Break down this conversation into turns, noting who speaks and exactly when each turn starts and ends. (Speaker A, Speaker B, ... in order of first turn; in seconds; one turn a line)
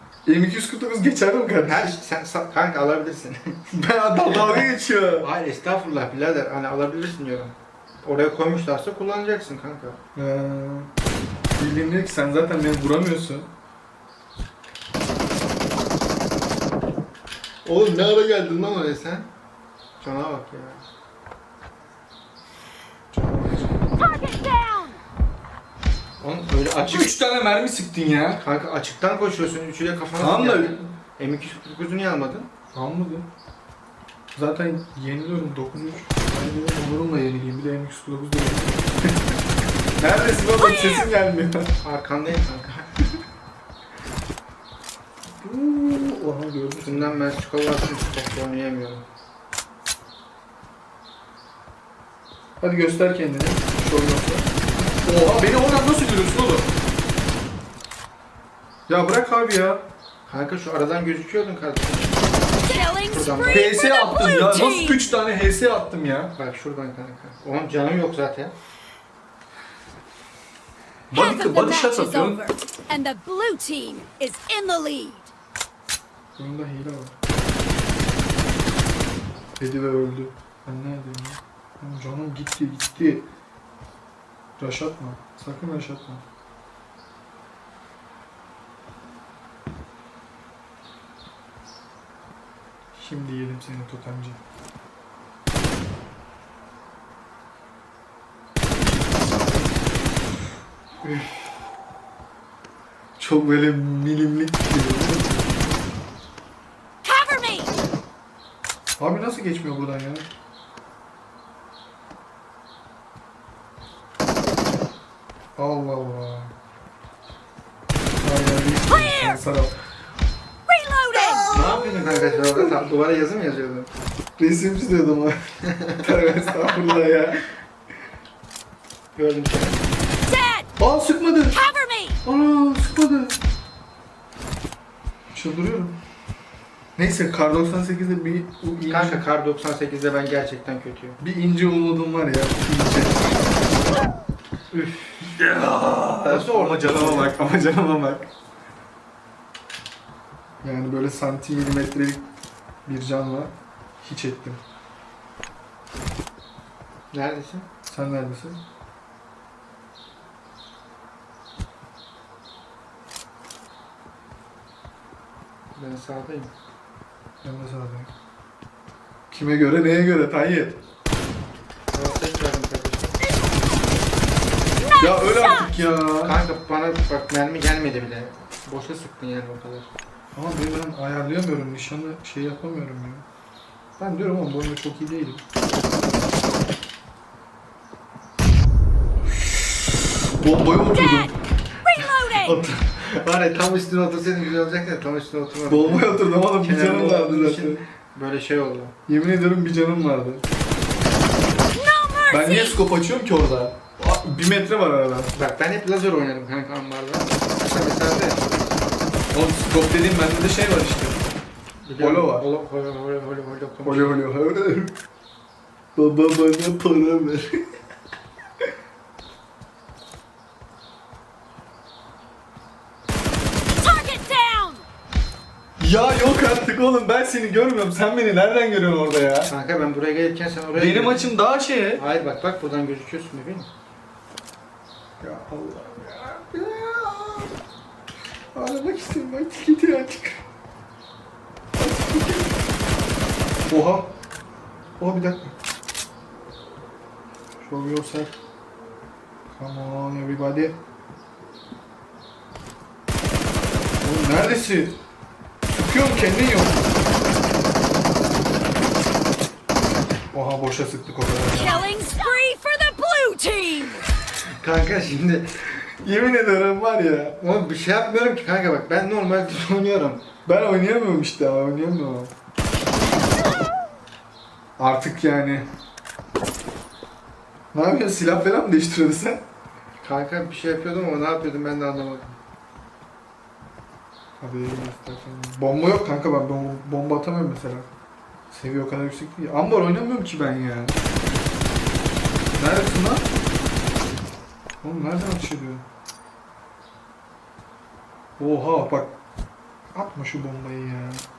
Speaker A: 0.2-1.9
Speaker B: 1.6-3.6
Speaker A: 3.7-5.3
Speaker B: 4.2-10.0
Speaker A: 10.1-10.9
Speaker A: 11.6-13.5
Speaker B: 17.6-19.3
Speaker B: 20.0-20.8
Speaker A: 23.1-23.9
Speaker C: 24.1-24.9
Speaker B: 26.2-27.1
Speaker A: 26.8-28.4
Speaker B: 28.4-32.5
Speaker A: 30.2-30.9
Speaker A: 32.7-33.3
Speaker A: 34.3-39.3
Speaker A: 40.0-41.7
Speaker C: 40.6-41.1
Speaker B: 41.8-42.9
Speaker A: 45.4-47.2
Speaker B: 46.8-49.0
Speaker A: 52.6-54.5
Speaker A: 55.0-56.7
Speaker A: 58.9-59.8
Speaker B: 60.3-62.2
Speaker C: 62.6-65.0
Speaker B: 62.7-63.7
Speaker A: 63.4-66.3
Speaker B: 66.3-68.5
Speaker A: 71.1-72.4
Speaker C: 71.1-75.3
Speaker A: 76.4-77.1
Speaker A: 79.6-83.3
Speaker A: 84.6-86.2
Speaker A: 92.9-94.4
Speaker A: 103.2-105.3
Speaker C: 107.0-107.7
Speaker A: 109.0-110.3
Speaker A: 115.6-116.5
Speaker A: 118.2-119.7
Speaker C: 118.9-119.4
Speaker C: 120.7-121.6
Speaker B: 121.5-123.9
Speaker A: 124.4-125.4
Speaker B: 125.7-126.0
Speaker A: 125.9-127.5
Speaker B: 129.1-129.8
Speaker C: 130.2-130.7
Speaker A: 130.8-131.6
Speaker C: 131.5-132.2
Speaker A: 132.2-133.4
Speaker A: 135.3-136.0
Speaker A: 136.9-139.2
Speaker B: 138.9-141.2
Speaker A: 141.2-143.3
Speaker B: 144.7-145.3
Speaker A: 145.2-148.3
Speaker B: 146.3-147.4
Speaker A: 150.6-152.3
Speaker A: 152.8-154.6
Speaker B: 157.1-157.7
Speaker A: 157.9-158.6
Speaker B: 165.7-166.5
Speaker A: 167.4-168.1
Speaker A: 169.3-170.8
Speaker B: 171.9-173.2
Speaker C: 174.9-175.7
Speaker A: 175.0-176.4
Speaker B: 176.2-179.9
Speaker A: 180.3-183.2
Speaker A: 184.0-185.4
Speaker A: 190.3-191.3
Speaker C: 191.0-191.3
Speaker C: 191.8-192.6
Speaker A: 192.4-192.8
Speaker B: 192.4-198.9
Speaker A: 195.7-197.8
Speaker A: 199.1-200.4
Speaker C: 201.7-202.8
Speaker A: 202.3-205.3
Speaker B: 205.3-208.4
Speaker A: 209.3-211.2
Speaker B: 211.8-214.2
Speaker A: 212.0-212.4
Speaker A: 213.8-214.9
Speaker A: 215.9-217.6
Speaker C: 223.8-224.8
Speaker A: 225.8-229.5
Speaker B: 229.5-231.3
Speaker A: 230.8-232.0
Speaker B: 231.9-233.7
Speaker A: 235.2-237.5
Speaker A: 238.5-240.4
Speaker A: 241.8-242.6
Speaker A: 243.7-244.1
Speaker A: 245.0-245.6
Speaker A: 247.6-248.3
Speaker A: 249.4-250.8
Speaker A: 254.0-255.0
Speaker A: 255.7-256.8
Speaker A: 260.3-261.9
Speaker C: 261.5-264.1
Speaker B: 264.6-265.5
Speaker A: 266.0-267.4
Speaker B: 267.4-270.2
Speaker A: 270.4-272.3
Speaker A: 274.8-275.7
Speaker A: 277.7-279.4
Speaker B: 280.0-282.4
Speaker A: 284.4-287.9
Speaker A: 288.5-291.0
Speaker A: 292.6-293.3
Speaker A: 294.8-295.8
Speaker A: 298.4-299.1
Speaker A: 299.9-301.2